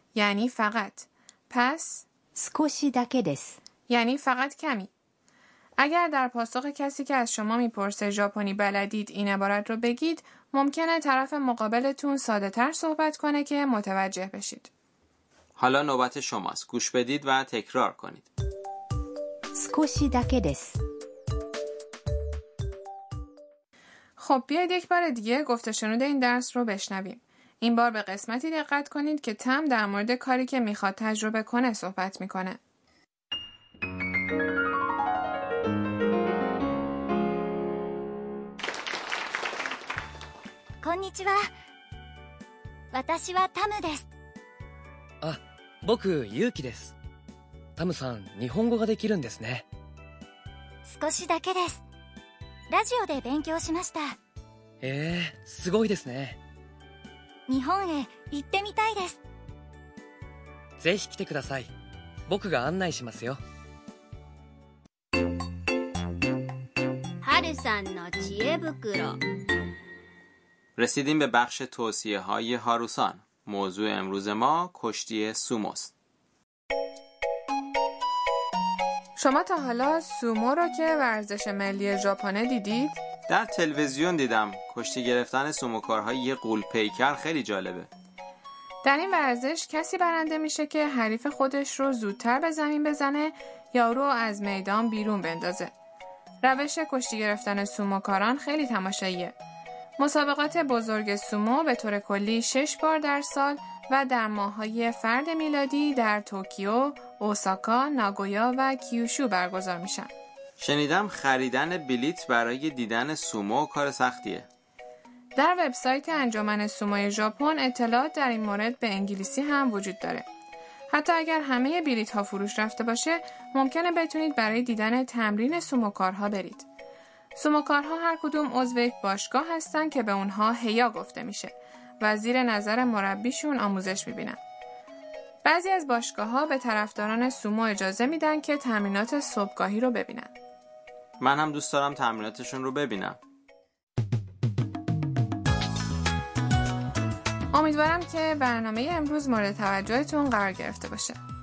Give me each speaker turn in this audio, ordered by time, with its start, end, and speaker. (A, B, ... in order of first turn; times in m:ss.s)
0:00.1-0:02.0 A
0:02.3-0:03.6 B
0:03.9-0:04.9 A
0:05.8-0:14.7 A
0:15.6-0:18.3 C
0:19.5-0:20.8 B
0:24.2-0:32.6 A
0:40.8-0:41.4 D
0:42.9-0:44.1 D
0:45.2-0:46.9 E
0:47.8-0:49.6 E
0:50.8-0:51.8 D
0:52.7-0:54.2 D
0:54.8-0:56.4 E
0:57.5-0:59.2 D
1:00.8-1:01.7 E
1:02.3-1:03.4 E
1:07.2-1:09.2 F
1:10.8-1:15.9 C
1:19.2-1:23.0 A
1:23.3-1:27.9 C
1:28.8-1:35.7 A
1:36.4-1:39.3 A
1:40.0-1:50.1 A
1:50.6-1:54.5 C
1:55.4-2:00.2 A
2:00.9-2:06.6 A
2:07.3-2:14.4 A
2:15.4-2:20.3 A
2:21.2-2:23.2 C
2:27.5-2:31.2 A